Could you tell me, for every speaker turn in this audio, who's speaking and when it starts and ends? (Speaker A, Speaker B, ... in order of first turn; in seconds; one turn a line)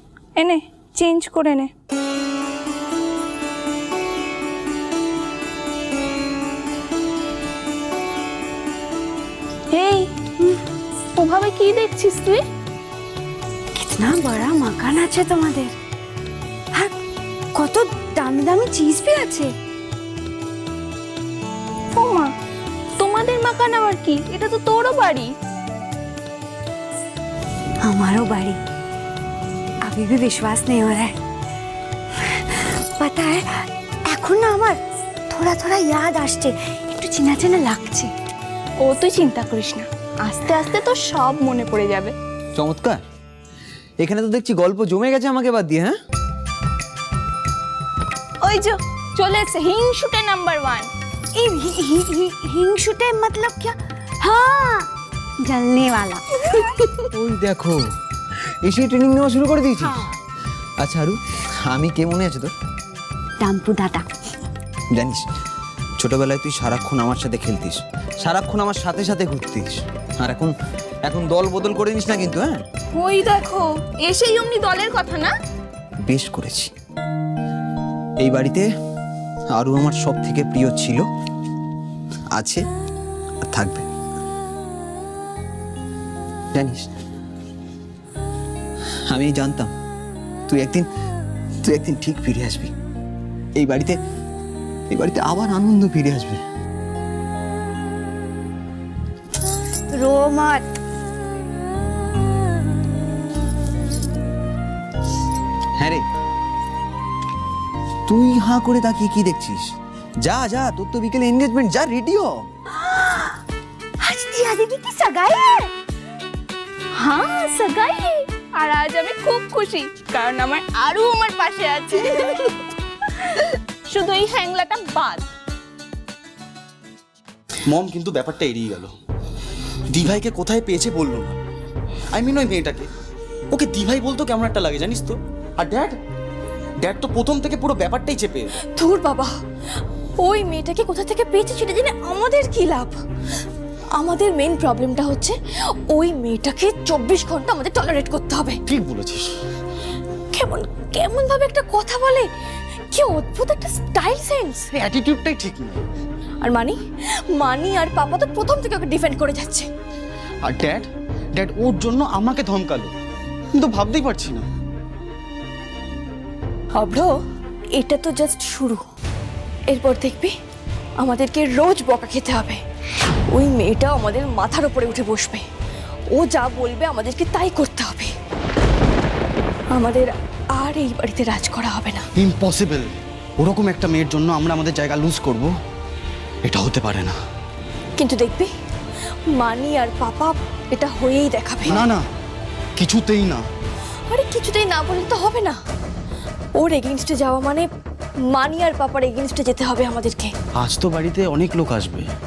Speaker A: 0.3-1.7
Speaker A: 9.7-10.1
Speaker A: 11.1-12.4
Speaker B: 13.8-15.7
Speaker B: 17.5-19.5
Speaker A: 21.9-22.3
Speaker A: 23.0-25.3
Speaker B: 27.8-28.6
Speaker B: 29.8-31.1
Speaker B: 32.4-33.5
Speaker B: 34.1-38.1
Speaker A: 38.8-42.1
Speaker C: 42.5-43.0
Speaker C: 44.0-45.9
Speaker A: 48.4-50.9
Speaker B: 51.3-54.9
Speaker B: 55.5-56.2
Speaker C: 57.1-57.8
Speaker C: 58.6-60.1
Speaker C: 60.8-62.5
Speaker B: 63.4-64.0
Speaker C: 64.9-65.2
Speaker C: 66.0-70.5
Speaker C: 71.1-72.6
Speaker A: 72.9-75.3
Speaker C: 76.0-76.7
Speaker C: 78.2-78.7
Speaker C: 79.5-81.0
Speaker C: 82.3-82.6
Speaker C: 83.4-83.8
Speaker C: 86.5-86.9
Speaker C: 89.1-89.7
Speaker C: 90.5-90.9
Speaker C: 91.6-92.7
Speaker C: 93.5-94.0
Speaker C: 94.9-96.4
Speaker B: 99.9-100.7
Speaker C: 105.8-106.0
Speaker C: 108.1-112.5
Speaker B: 112.7-113.3
Speaker B: 114.0-115.7
Speaker A: 117.0-122.5
Speaker A: 123.9-125.2
Speaker D: 127.7-128.9
Speaker D: 129.9-131.4
Speaker D: 132.1-132.9
Speaker D: 133.5-135.9
Speaker D: 136.8-138.6
Speaker E: 138.8-139.3
Speaker E: 140.2-142.9
Speaker E: 144.0-145.3
Speaker E: 145.9-148.6
Speaker D: 148.7-149.3
Speaker E: 150.3-152.2
Speaker E: 152.9-154.7
Speaker D: 154.8-155.8
Speaker E: 156.4-156.8
Speaker E: 157.4-159.7
Speaker D: 160.4-162.9
Speaker D: 163.6-164.4
Speaker E: 166.8-167.1
Speaker E: 167.8-168.8
Speaker E: 169.7-170.3
Speaker E: 171.0-172.6
Speaker E: 173.3-175.4
Speaker E: 176.1-178.1
Speaker E: 179.7-182.0
Speaker D: 182.2-185.5
Speaker D: 186.4-187.1
Speaker E: 188.0-188.5
Speaker E: 189.4-191.8
Speaker D: 191.7-192.0
Speaker D: 192.8-193.4
Speaker E: 194.1-195.6
Speaker E: 196.6-197.7
Speaker E: 198.3-200.3
Speaker D: 200.6-202.1